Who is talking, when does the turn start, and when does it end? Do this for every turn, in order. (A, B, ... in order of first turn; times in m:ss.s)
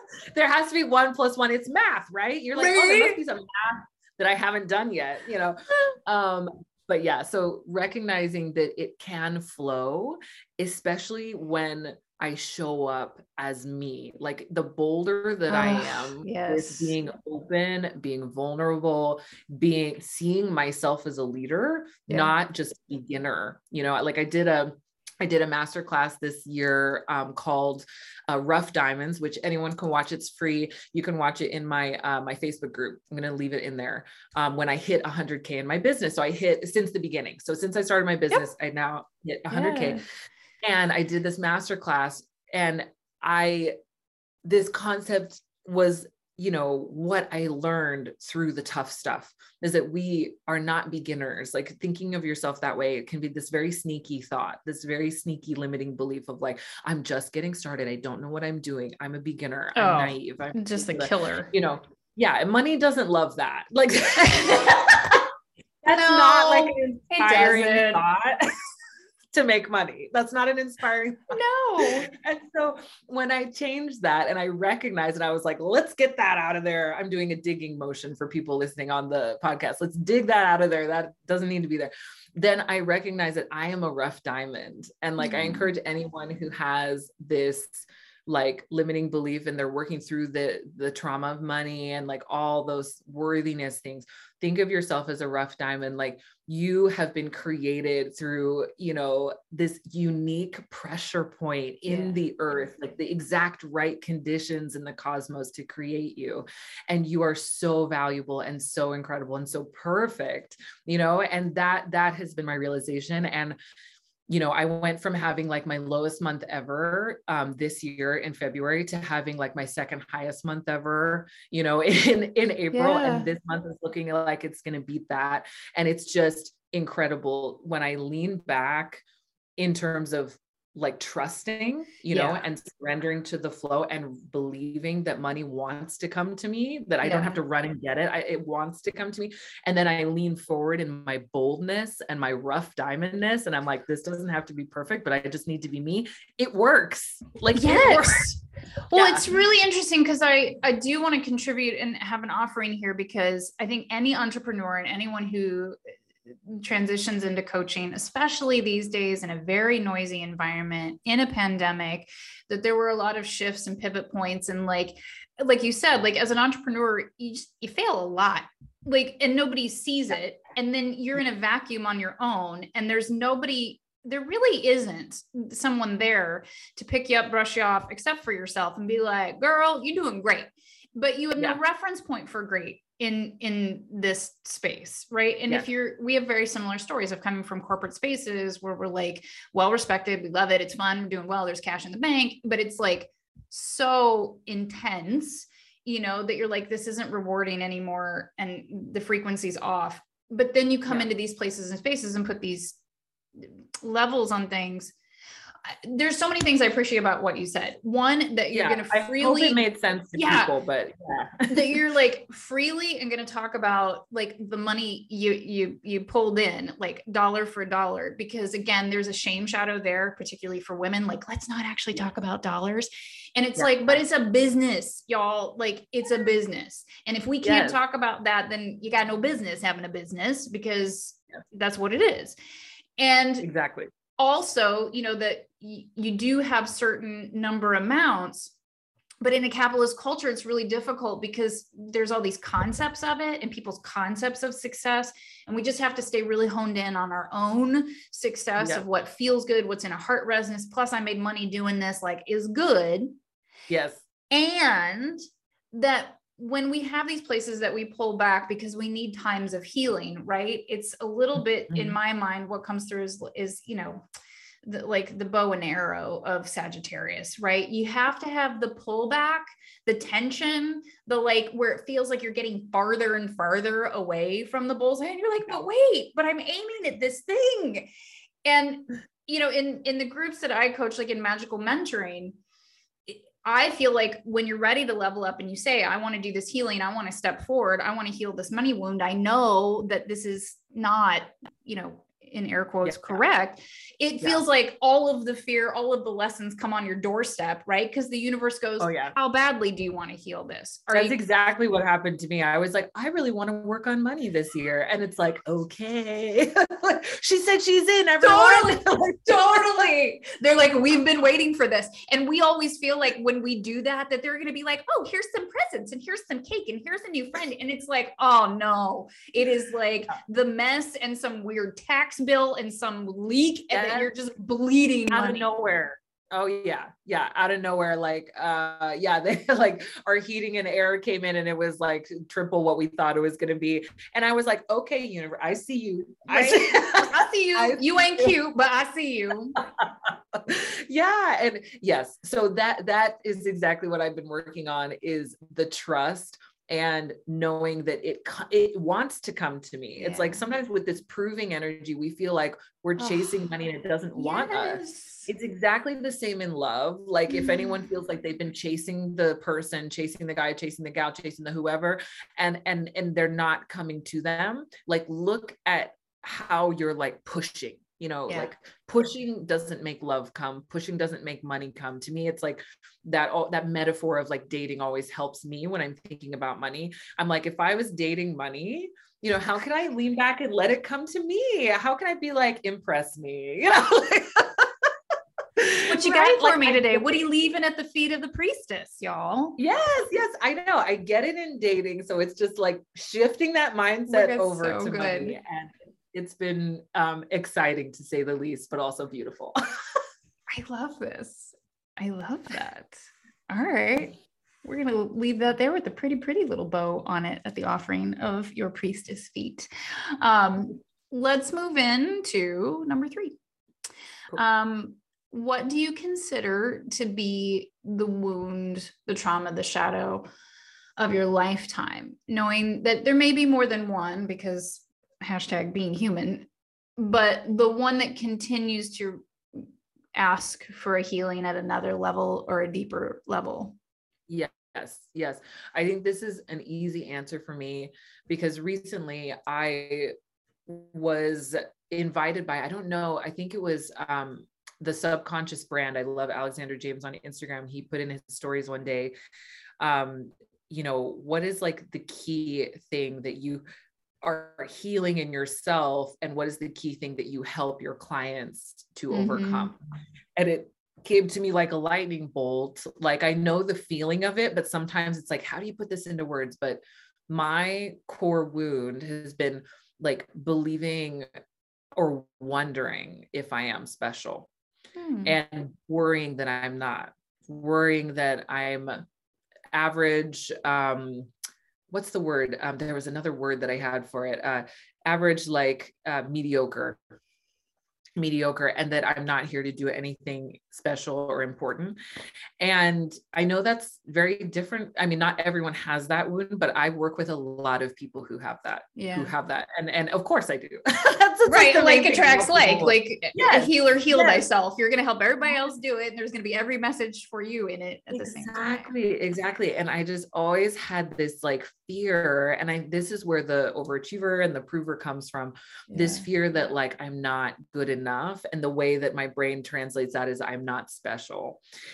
0:00.3-0:40.0 A
0:02.6-0:03.2 B
0:15.5-0:17.0 B
0:22.1-0:22.3 B
0:39.5-0:40.0 B
0:40.6-0:43.7 A
0:44.4-1:05.2 A
0:59.7-1:01.5 B
1:04.6-1:04.8 B
1:05.8-1:08.4 A
1:05.9-1:08.0 B
1:09.3-1:11.4 A
1:11.3-1:12.1 B
1:12.0-1:53.6 A
1:25.2-1:25.6 B
1:41.8-1:42.2 B
1:54.3-2:09.0 A
2:02.7-2:03.3 B
2:09.6-2:28.2 A
2:12.1-2:12.4 B
2:17.0-2:17.4 B
2:27.5-2:28.4 B
2:28.9-2:29.2 A
2:28.9-2:35.8 B
2:36.4-3:22.8 B
3:23.4-3:24.9 B
3:25.6-3:29.6 B
3:28.5-3:31.8 A
3:30.1-3:30.5 B
3:31.5-3:52.4 B
3:43.6-3:44.0 A
3:47.4-3:47.8 A
3:53.0-3:53.5 B
3:53.4-3:53.9 A
3:54.2-3:58.5 B
3:59.2-4:13.1 B
4:08.6-4:08.8 A
4:13.7-4:14.0 A
4:14.3-4:15.2 B
4:15.7-4:24.0 B
4:21.7-4:22.0 A
4:24.6-4:37.9 B
4:38.4-4:42.4 B
4:43.1-5:01.2 B
4:52.8-4:53.2 A
4:58.8-4:59.2 A
5:00.9-5:09.6 A
5:08.2-5:25.5 B
5:23.7-5:24.1 A
5:25.1-5:38.3 A
5:36.3-5:39.6 B
5:39.6-6:24.9 A
5:50.0-5:50.4 B
5:53.0-5:53.5 B
5:54.1-5:55.3 B
5:57.3-5:57.9 B
6:25.6-6:27.2 A
6:25.9-6:29.6 B
6:29.6-6:39.6 A
6:34.1-6:35.4 B
6:40.5-6:53.4 B
6:54.3-7:00.3 B
7:01.0-7:13.8 B
7:14.3-7:20.1 A
7:20.7-7:29.1 A
7:29.8-7:33.6 A
7:34.2-7:39.8 A
7:39.1-7:39.7 B
7:40.4-7:51.3 A
7:51.9-7:54.5 A
7:55.0-7:55.4 B
7:55.2-7:59.0 A
7:59.7-8:01.3 A
8:01.9-8:07.0 A
8:08.2-8:12.0 A
8:12.6-8:24.4 A
8:19.0-8:19.3 B
8:21.5-8:28.9 B
8:28.1-8:41.6 A
8:35.9-8:36.3 B